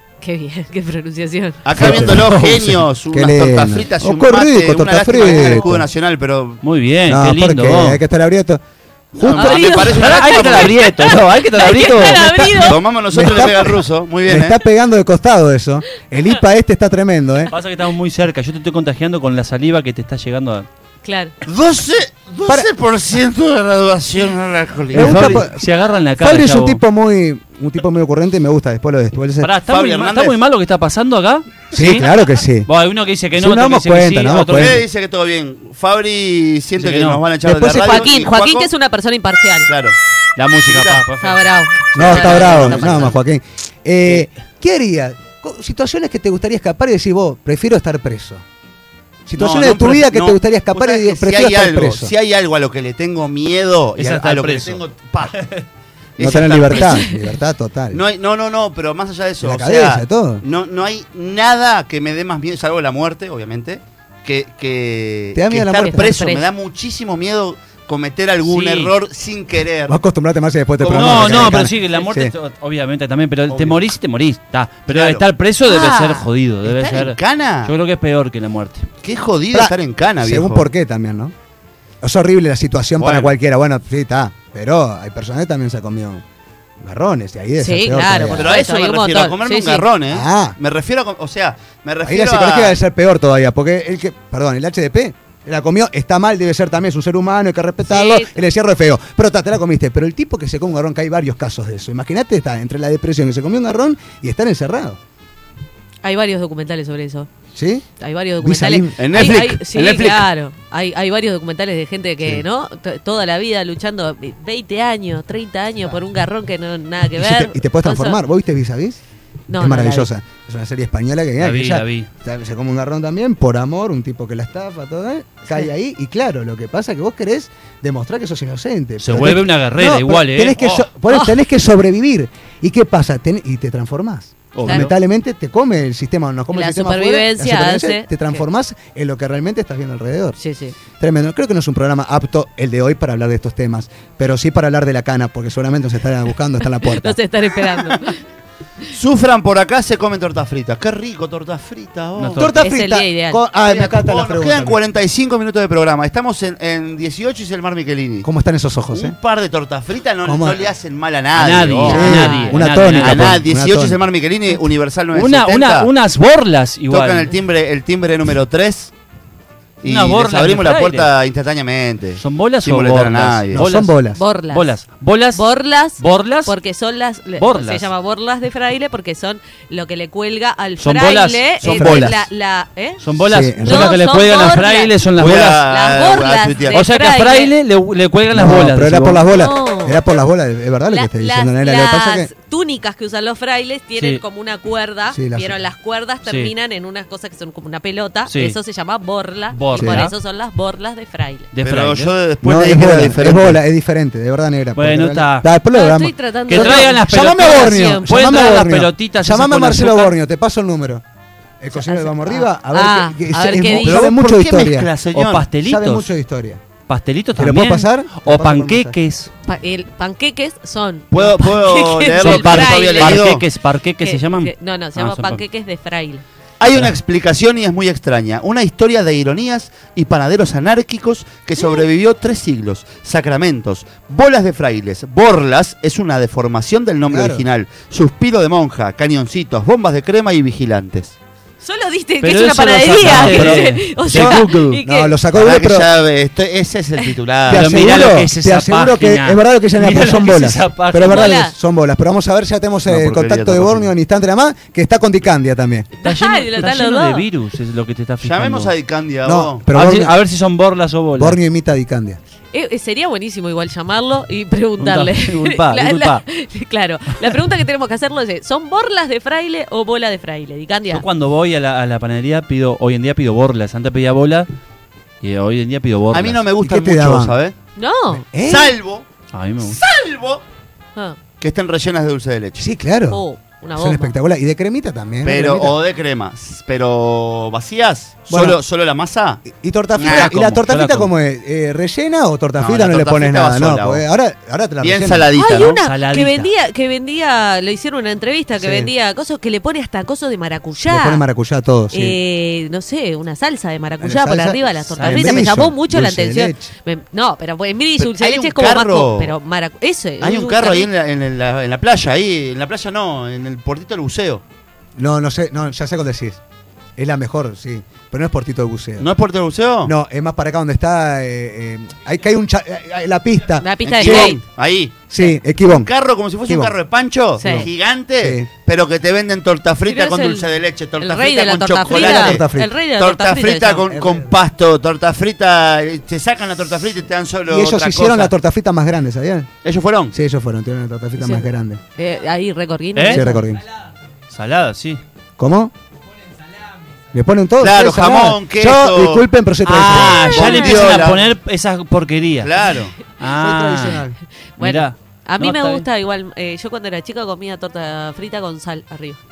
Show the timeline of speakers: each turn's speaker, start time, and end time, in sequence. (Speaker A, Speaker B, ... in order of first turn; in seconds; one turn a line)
Speaker A: 0.2-1.6
Speaker B: 1.6-6.6
Speaker C: 1.8-5.9
Speaker D: 1.9-2.1
Speaker D: 6.6-8.0
Speaker C: 7.1-8.6
Speaker C: 9.1-9.6
Speaker B: 9.2-10.9
Speaker A: 9.3-12.8
Speaker D: 9.5-12.7
Speaker C: 11.9-17.5
Speaker B: 12.7-14.6
Speaker D: 17.5-20.7
Speaker A: 21.0-21.3
Speaker B: 21.4-25.4
Speaker C: 24.9-25.6
Speaker D: 24.9-26.8
Speaker C: 26.2-29.5
Speaker D: 29.4-32.1
Speaker B: 29.6-30.4
Speaker C: 31.7-32.7
Speaker D: 32.6-34.8
Speaker C: 33.4-34.8
Speaker B: 34.5-38.7
Speaker D: 36.8-37.3
Speaker C: 37.4-38.0
Speaker A: 37.6-39.7
Speaker B: 39.6-40.0
Speaker D: 40.4-43.1
Speaker B: 40.6-41.0
Speaker A: 41.2-43.1
Speaker C: 41.9-48.4
Speaker C: 49.2-52.1
Speaker B: 49.4-55.3
Speaker D: 54.0-55.6
Speaker B: 56.2-57.1
Speaker C: 56.2-58.0
Speaker A: 56.7-57.0
Speaker B: 57.9-70.0
Speaker C: 59.4-60.4
Speaker C: 65.3-66.1
Speaker A: 65.7-66.5
Speaker D: 68.4-69.0
Speaker C: 69.9-72.3
Speaker B: 70.8-71.7
Speaker D: 70.9-78.9
Speaker B: 73.5-73.8
Speaker B: 74.9-77.7
Speaker B: 79.0-80.7
Speaker C: 79.5-81.3
Speaker C: 82.0-86.2
Speaker B: 83.0-83.3
Speaker C: 86.8-88.5
Speaker A: 87.6-89.8
Speaker B: 88.3-92.8
Speaker C: 90.1-90.5
Speaker C: 92.0-105.0
Speaker A: 97.9-98.3
Speaker A: 106.0-107.3
Speaker C: 107.5-107.8
Speaker A: 108.0-118.2
Speaker C: 108.4-109.2
Speaker B: 109.0-110.3
Speaker C: 117.1-119.0
Speaker A: 119.5-120.1
Speaker C: 119.6-140.4
Speaker D: 121.4-122.1
Speaker D: 129.0-130.8
Speaker A: 131.1-131.4
Speaker D: 134.5-134.9
Speaker A: 136.5-138.4
Speaker A: 140.4-140.7
Speaker C: 141.0-147.6
Speaker A: 146.6-148.2
Speaker B: 148.9-152.5
Speaker D: 152.2-152.6
Speaker C: 152.3-154.8
Speaker A: 152.5-153.4
Speaker B: 153.6-158.3
Speaker C: 158.2-159.2
Speaker B: 158.9-162.1
Speaker C: 160.2-160.6
Speaker D: 161.3-163.4
Speaker C: 161.8-164.0
Speaker A: 161.9-162.6
Speaker B: 162.9-165.9
Speaker D: 165.1-167.3
Speaker B: 166.9-168.9
Speaker B: 169.8-173.6
Speaker D: 169.8-171.1
Speaker D: 172.2-174.0
Speaker C: 173.5-174.2
Speaker A: 174.2-174.7
Speaker D: 174.5-176.5
Speaker A: 175.3-183.0
Speaker D: 177.4-177.9
Speaker D: 180.8-182.2
Speaker C: 181.6-182.2
Speaker D: 183.0-185.6
Speaker C: 183.2-183.9
Speaker A: 183.6-187.5
Speaker B: 185.2-186.8
Speaker D: 186.7-189.2
Speaker C: 188.3-192.3
Speaker A: 189.3-190.0
Speaker A: 190.9-201.5
Speaker D: 193.9-194.2
Speaker C: 195.1-195.6
Speaker D: 196.2-196.5
Speaker D: 198.2-198.6
Speaker D: 199.5-200.1
Speaker C: 199.7-200.0
Speaker D: 201.5-202.1
Speaker B: 201.6-203.6
Speaker C: 202.4-211.0
Speaker D: 204.7-205.5
Speaker A: 205.7-208.6
Speaker D: 206.5-210.1
Speaker C: 211.6-214.9
Speaker A: 211.7-214.1
Speaker B: 213.8-215.5
Speaker D: 215.0-216.1
Speaker C: 215.6-216.6
Speaker D: 216.9-219.3
Speaker C: 217.3-219.0
Speaker A: 219.4-223.2
Speaker B: 221.1-223.4
Speaker D: 222.2-225.4
Speaker A: 224.0-226.2
Speaker B: 226.6-241.1
Speaker D: 226.7-226.9
Speaker C: 237.1-237.4
Speaker A: 241.6-245.2
Speaker D: 242.2-244.8
Speaker C: 243.0-245.9
Speaker B: 245.3-247.9
Speaker D: 247.4-251.3
Speaker C: 247.5-255.9
Speaker A: 251.0-251.5
Speaker B: 252.8-253.9
Speaker A: 256.0-257.2
Speaker D: 256.0-258.7
Speaker B: 258.2-259.6
Speaker C: 259.2-260.1
Speaker D: 259.7-261.4
Speaker C: 261.2-262.2
Speaker A: 262.5-271.0
Speaker D: 264.8-266.2
Speaker D: 270.9-274.5
Speaker D: 275.2-276.4
Speaker B: 276.1-277.5
Speaker C: 276.6-277.4
Speaker A: 277.8-278.2
Speaker C: 278.2-278.8
Speaker B: 278.4-279.1
Speaker D: 279.3-279.8
Speaker B: 279.6-280.4
Speaker B: 281.4-282.7
Speaker C: 282.6-283.2
Speaker A: 283.1-284.1
Speaker C: 283.7-285.8
Speaker B: 285.2-289.4
Speaker C: 288.3-288.6
Speaker C: 289.4-295.3
Speaker D: 289.9-291.1
Speaker B: 290.0-290.3
Speaker B: 292.6-294.0
Speaker B: 294.8-295.8
Speaker A: 295.3-301.2
Speaker D: 295.8-296.5
Speaker C: 298.6-298.9
Speaker C: 300.8-302.2
Speaker A: 301.9-310.9
Speaker C: 304.0-306.7
Speaker D: 305.0-305.5
Speaker B: 308.0-309.3
Speaker B: 310.2-314.4
Speaker C: 315.0-316.4
Speaker C: 317.0-319.1
Speaker B: 319.0-319.9
Speaker C: 319.8-324.4
Speaker A: 323.6-324.4
Speaker B: 323.8-325.1
Speaker C: 325.1-325.9
Speaker B: 325.6-338.3
Speaker C: 326.4-326.8
Speaker A: 327.4-327.7
Speaker C: 327.4-328.5
Speaker A: 329.8-333.9
Speaker C: 331.9-332.7
Speaker C: 333.9-334.3
Speaker C: 337.5-339.5
Speaker B: 339.6-340.1
Speaker C: 340.1-341.8
Speaker A: 341.2-343.4
Speaker D: 342.9-343.2
Speaker C: 343.1-343.6
Speaker D: 344.3-345.0
Speaker C: 345.4-345.7
Speaker C: 347.1-350.3
Speaker B: 347.6-351.3
Speaker D: 349.6-352.5
Speaker A: 350.3-351.1
Speaker B: 352.4-353.0
Speaker D: 353.1-354.1
Speaker C: 353.3-354.2
Speaker A: 354.6-359.2
Speaker D: 354.6-355.9